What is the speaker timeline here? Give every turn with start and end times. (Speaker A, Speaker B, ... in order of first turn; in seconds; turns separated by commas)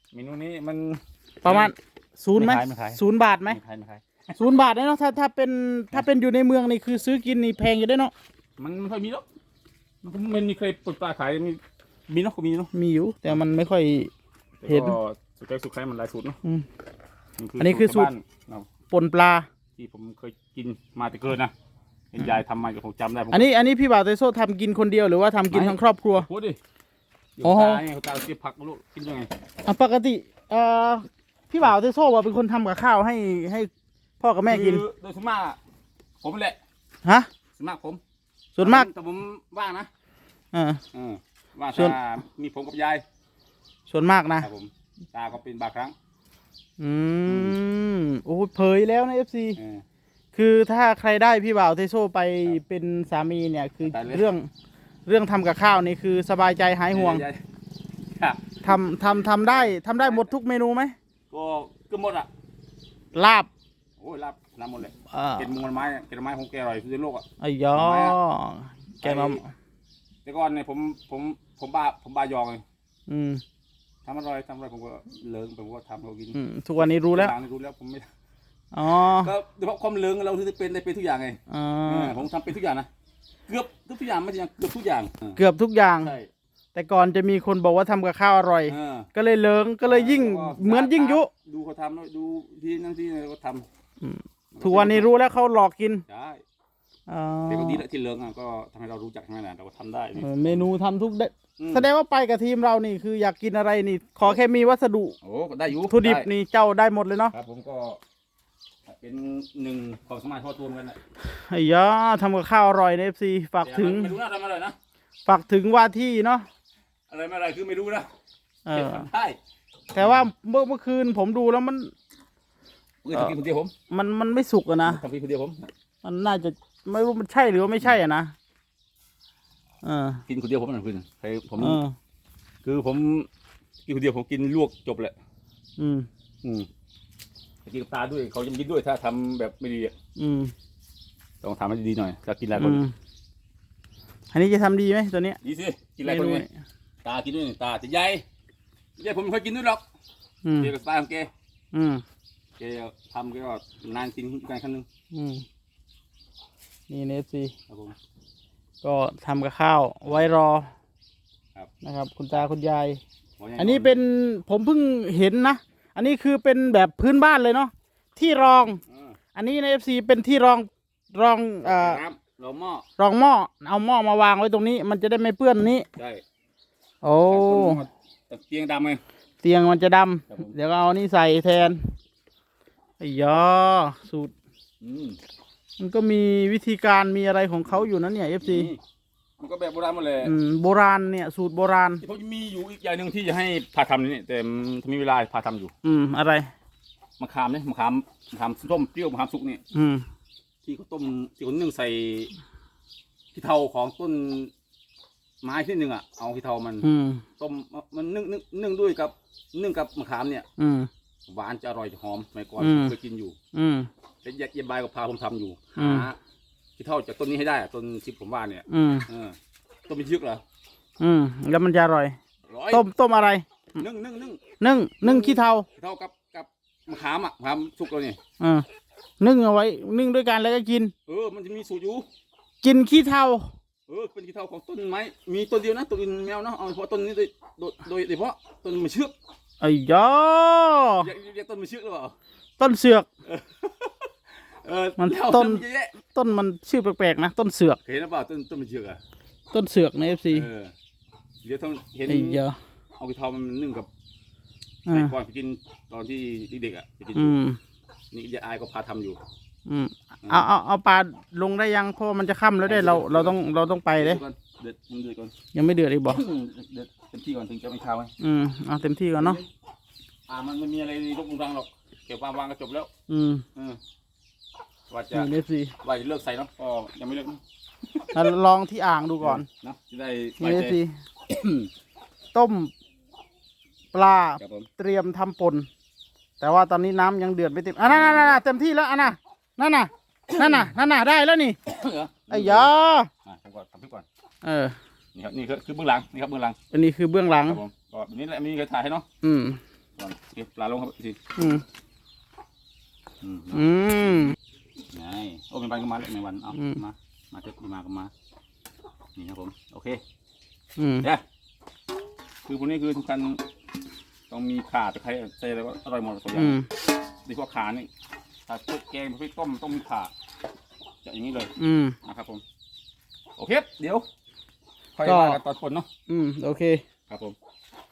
Speaker A: 0.1-1.7, Speaker B: 1.4-3.6, Speaker A: 2.4-4.4, Speaker B: 4.4-8.1, Speaker A: 8.6-9.3, Speaker A: 10.0-12.7, Speaker B: 12.7-14.1, Speaker A: 14.6-16.4, Speaker B: 14.7-15.0, Speaker A: 17.4-18.7, Speaker B: 17.6-18.1, Speaker B: 18.9-19.5, Speaker A: 19.8-21.5, Speaker A: 22.1-23.5, Speaker B: 23.3-26.3, Speaker A: 25.5-26.6, Speaker A: 27.4-29.3, Speaker B: 27.4-27.8, Speaker B: 29.6-34.8, Speaker A: 34.5-35.6, Speaker A: 36.2-36.6, Speaker B: 37.0-37.3, Speaker A: 37.5-38.0, Speaker B: 38.5-38.9, Speaker A: 38.6-39.9, Speaker B: 40.5-40.8, Speaker A: 40.9-43.0, Speaker B: 43.9-44.5, Speaker A: 44.4-46.0, Speaker B: 46.8-49.6, Speaker A: 47.3-47.6, Speaker A: 49.6-49.9, Speaker B: 50.4-54.5, Speaker A: 53.8-54.2, Speaker B: 55.1-57.2, Speaker A: 56.9-57.4, Speaker A: 58.1-60.3, Speaker B: 58.6-61.0, Speaker A: 61.3-62.3, Speaker B: 63.1-63.5, Speaker A: 64.0-68.2, Speaker B: 65.1-65.5, Speaker B: 67.4-69.5, Speaker A: 69.0-69.4, Speaker A: 70.2-72.6, Speaker B: 73.1-73.4, Speaker A: 74.0-78.1, Speaker B: 76.3-77.3, Speaker B: 78.7-79.3, Speaker A: 78.8-82.9, Speaker B: 81.5-82.2, Speaker A: 83.5-85.4, Speaker B: 85.4-86.2, Speaker A: 86.0-86.3, Speaker B: 86.7-91.3, Speaker A: 88.7-89.1, Speaker A: 89.8-93.7, Speaker B: 94.0-96.0, Speaker A: 94.5-95.1, Speaker A: 96.1-96.4, Speaker B: 97.1-97.8, Speaker A: 97.5-100.7, Speaker B: 100.2-105.2, Speaker A: 101.6-101.9, Speaker A: 105.2-106.3, Speaker B: 105.8-107.3, Speaker A: 107.3-108.0, Speaker A: 108.9-111.0, Speaker B: 111.3-114.2, Speaker A: 113.6-114.8, Speaker B: 115.3-116.5, Speaker A: 117.1-118.1, Speaker B: 118.7-119.1, Speaker A: 118.7-119.4, Speaker B: 119.9-121.9, Speaker A: 120.0-120.3, Speaker A: 123.0-123.7, Speaker B: 123.9-125.0, Speaker A: 124.8-125.7, Speaker B: 126.0-128.3, Speaker B: 129.8-130.2, Speaker A: 130.3-131.8, Speaker B: 131.6-131.9, Speaker A: 132.6-133.3, Speaker A: 133.9-135.2, Speaker B: 135.8-136.1, Speaker A: 136.4-136.7, Speaker A: 137.7-139.9, Speaker B: 140.2-140.5, Speaker A: 141.4-142.8, Speaker B: 142.6-142.9, Speaker B: 144.3-145.4, Speaker A: 145.4-146.4, Speaker B: 146.0-146.5, Speaker A: 147.0-148.2, Speaker A: 149.0-149.8, Speaker B: 150.4-150.7, Speaker A: 150.6-151.3, Speaker B: 151.7-152.0, Speaker A: 152.6-154.9, Speaker B: 155.1-155.4, Speaker B: 156.9-157.5, Speaker A: 157.7-157.9, Speaker B: 158.8-160.7, Speaker B: 161.8-163.0, Speaker A: 163.4-164.0, Speaker B: 163.6-168.8, Speaker A: 168.9-169.2, Speaker B: 169.3-172.0, Speaker A: 171.6-172.9, Speaker B: 173.0-175.9, Speaker A: 176.0-176.2, Speaker B: 177.0-177.8, Speaker A: 177.3-179.0, Speaker B: 179.4-181.9, Speaker A: 180.3-180.6, Speaker B: 183.0-184.3, Speaker A: 184.8-185.2, Speaker B: 185.8-188.7, Speaker A: 188.4-188.8, Speaker A: 189.4-190.3, Speaker B: 190.2-192.0, Speaker A: 192.0-195.7, Speaker B: 195.8-196.5, Speaker A: 197.2-199.6, Speaker B: 199.7-200.1, Speaker A: 200.7-202.3, Speaker A: 203.3-204.5, Speaker A: 205.4-206.9, Speaker B: 206.8-207.2, Speaker A: 207.4-210.5, Speaker B: 210.6-210.9, Speaker A: 211.3-213.4, Speaker B: 212.6-212.9, Speaker B: 213.5-213.9, Speaker A: 214.2-216.2, Speaker B: 215.8-216.1, Speaker A: 216.8-220.4, Speaker B: 218.7-219.1, Speaker B: 221.0-222.2, Speaker A: 222.5-222.8, Speaker B: 222.7-223.5, Speaker A: 223.8-224.4, Speaker B: 224.6-225.7, Speaker A: 225.0-228.2, Speaker B: 228.4-228.7, Speaker B: 229.2-230.9, Speaker A: 231.1-232.1, Speaker B: 232.6-233.5, Speaker A: 233.9-239.2, Speaker B: 239.6-241.1, Speaker A: 241.0-242.2, Speaker B: 242.6-243.1, Speaker A: 243.3-244.1, Speaker A: 244.6-246.0, Speaker B: 245.0-247.8, Speaker A: 247.8-249.0, Speaker B: 249.5-250.5, Speaker A: 250.3-250.7, Speaker A: 251.4-252.4, Speaker B: 252.1-252.6, Speaker A: 253.0-253.9, Speaker B: 254.9-255.1, Speaker A: 254.9-257.4, Speaker B: 257.1-257.6, Speaker A: 258.1-259.2, Speaker B: 259.7-264.2, Speaker A: 262.6-263.4, Speaker A: 263.9-265.3, Speaker B: 265.6-266.2, Speaker A: 266.1-268.1, Speaker B: 268.2-269.4, Speaker A: 269.1-269.4, Speaker A: 270.3-272.9, Speaker B: 273.1-273.4, Speaker A: 273.6-273.8, Speaker A: 274.9-275.3, Speaker B: 275.1-275.8, Speaker A: 275.8-277.4, Speaker A: 277.9-278.4, Speaker B: 278.1-279.5, Speaker A: 279.2-281.7, Speaker B: 280.4-280.9, Speaker B: 282.3-282.7, Speaker B: 283.9-285.7, Speaker A: 284.4-284.7, Speaker B: 286.4-291.6, Speaker A: 287.8-288.4, Speaker A: 291.7-292.7, Speaker B: 292.3-293.1, Speaker A: 293.2-294.1, Speaker B: 294.4-294.8, Speaker A: 295.1-296.6, Speaker B: 296.7-297.6, Speaker A: 297.4-299.1, Speaker B: 299.2-299.6, Speaker A: 300.0-301.2, Speaker B: 301.4-301.6, Speaker A: 303.2-303.7, Speaker B: 303.5-304.4, Speaker A: 304.9-308.1, Speaker B: 306.6-306.8, Speaker A: 309.2-310.0, Speaker B: 310.8-311.1, Speaker A: 312.5-313.4, Speaker A: 314.3-316.6, Speaker B: 316.3-316.7, Speaker A: 317.2-317.9, Speaker A: 318.5-320.1, Speaker A: 321.1-321.5, Speaker B: 321.6-322.0, Speaker A: 322.0-322.4, Speaker A: 323.4-324.1, Speaker A: 325.0-325.9, Speaker B: 325.1-325.4, Speaker B: 326.1-326.8, Speaker A: 327.1-327.4